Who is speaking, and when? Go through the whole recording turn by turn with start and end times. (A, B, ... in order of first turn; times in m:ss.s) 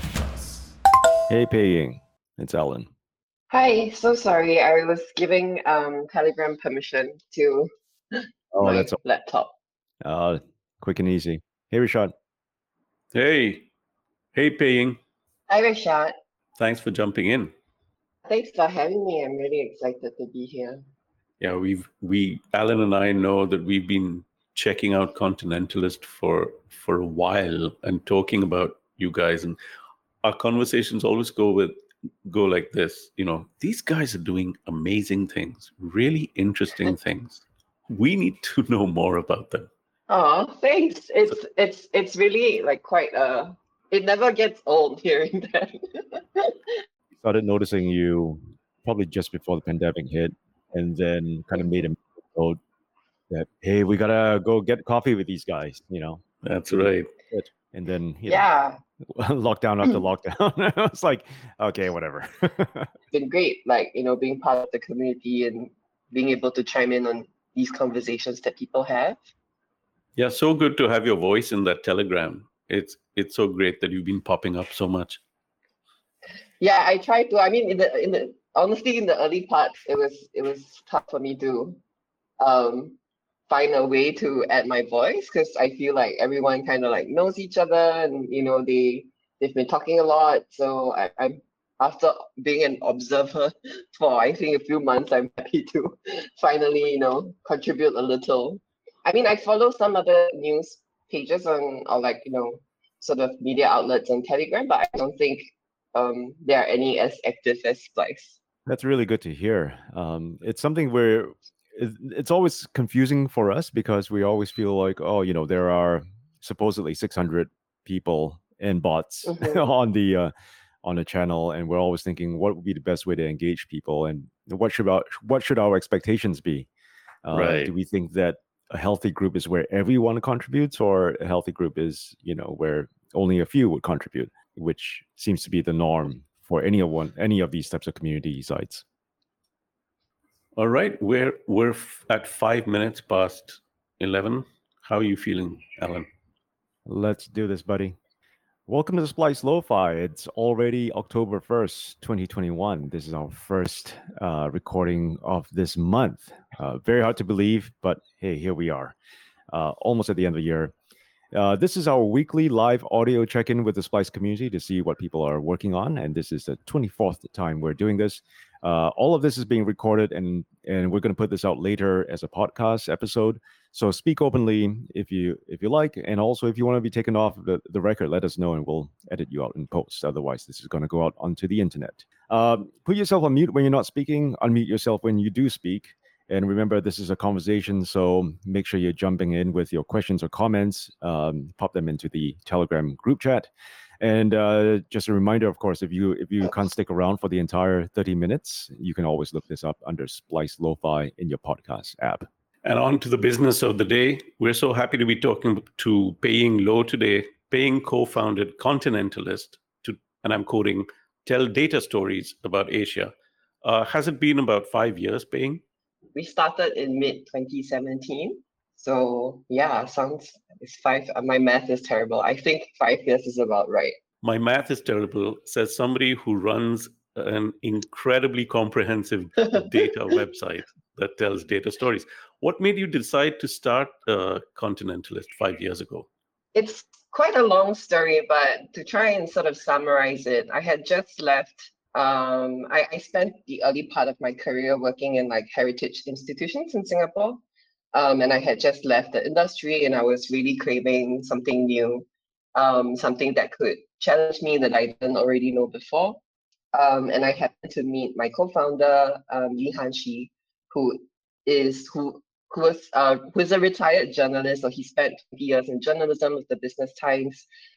0:01.3-0:02.9 A
0:03.5-0:09.5 B
0:08.5-0:09.0 A
0:10.0-0:12.1 A
0:13.1-0:13.7 C
0:14.3-0:15.0 C
0:15.5-0:16.1 B
0:16.6-0:17.5 C
0:18.2-0:20.8 B
0:21.4-0:29.6 C
0:30.2-0:39.7 C
0:40.1-0:46.8 B
0:47.2-0:52.6 A
0:53.3-0:58.5 A
0:56.4-0:57.1 C
0:58.3-0:58.8 B
0:59.0-1:02.9 A
1:03.1-1:09.2 B
1:10.2-1:15.2 C
1:16.6-1:21.8 B
1:22.4-1:23.0 B
1:23.5-1:48.4 B
1:48.6-2:00.3 A
1:59.2-1:59.6 B
2:00.8-2:06.7 A
2:07.2-2:18.8 A
2:07.3-2:07.7 C
2:20.6-2:26.0 C
2:26.8-2:28.0 A
2:28.7-2:38.9 A
2:39.5-2:40.7 A
2:41.3-3:13.5 A
3:14.0-3:22.3 A
3:22.6-3:33.1 C
3:33.6-3:35.6 C
3:36.1-3:44.0 B
3:44.2-3:56.1 C
3:56.5-4:07.4 B
4:07.9-4:16.2 B
4:16.7-4:27.4 B